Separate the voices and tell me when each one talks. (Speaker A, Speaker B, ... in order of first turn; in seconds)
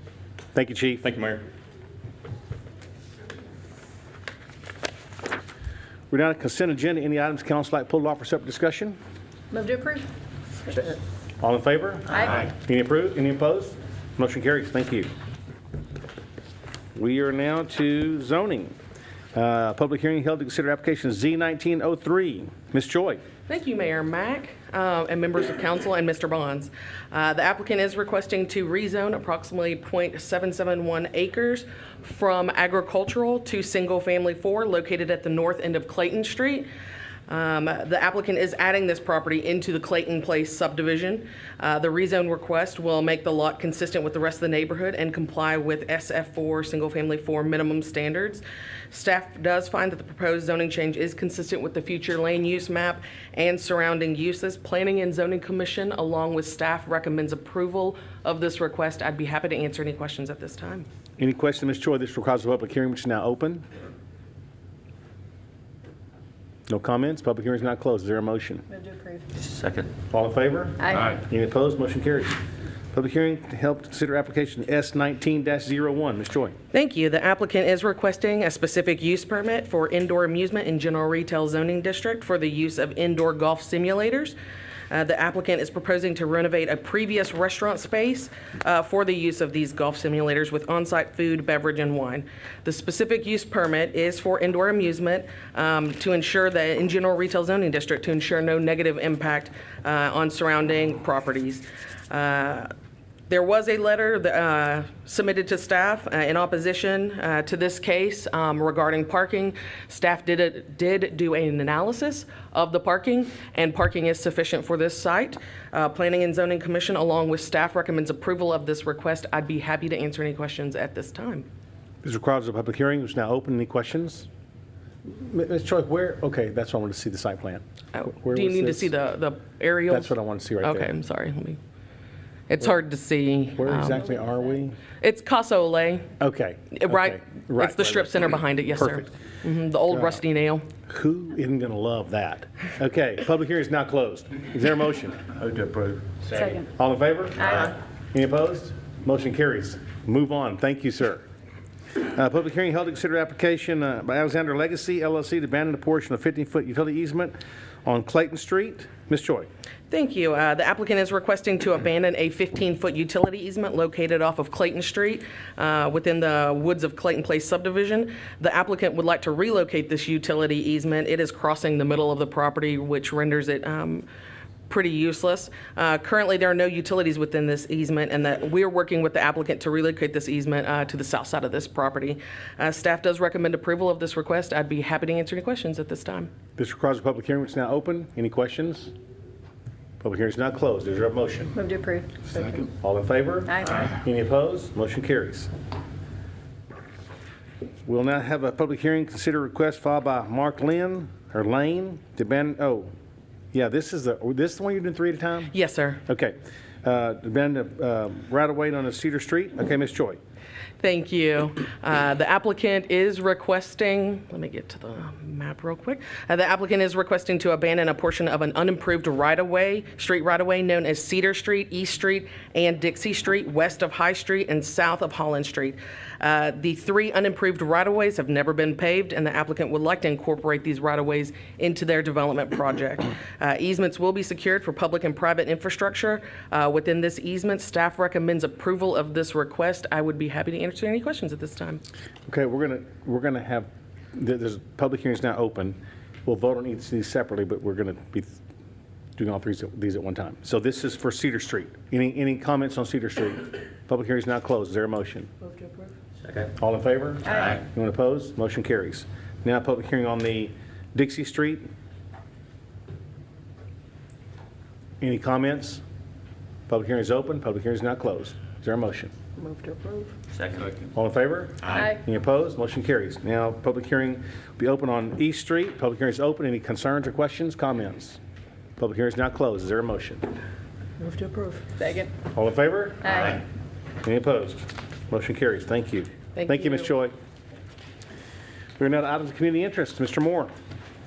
Speaker A: 0.5-1.4, 6.1-9.0, 11.4-15.1, 16.9-18.7, 19.3-23.2, 61.2-63.6, 66.7-68.7, 70.1-72.3, 72.9-76.5, 122.0-124.3, 125.1-128.9, 129.9-130.9, 133.6-134.8, 136.2-138.2, 138.8-139.1, 139.9-140.2, 140.9-145.2, 146.6-151.2, 152.1-159.5, 186.6-188.9, 190.0-191.6, 192.7-195.5, 197.8-202.9, 203.5-205.5, 206.1-210.2, 242.3-248.4, 249.2-255.3, 256.5-261.6, 265.0-265.8, 266.7-269.1, 270.9-278.2, 278.8-280.2, 282.3-283.4, 284.0-287.1, 288.8-290.5
Speaker B: 9.5-10.1, 68.7-69.2, 146.3-146.6, 191.6-192.6, 269.4-270.1, 281.0-282.1
Speaker C: 23.5-36.7, 37.3-60.9, 76.7-84.3, 84.9-102.7, 103.3-121.5, 127.9-131.6, 132.5-134.1, 135.0-136.1, 136.7-140.6, 159.9-174.1, 174.7-186.3, 205.5-206.0, 210.8-241.8, 286.4-286.9
Speaker D: 69.4-69.9, 145.3-146.4, 270.3-270.8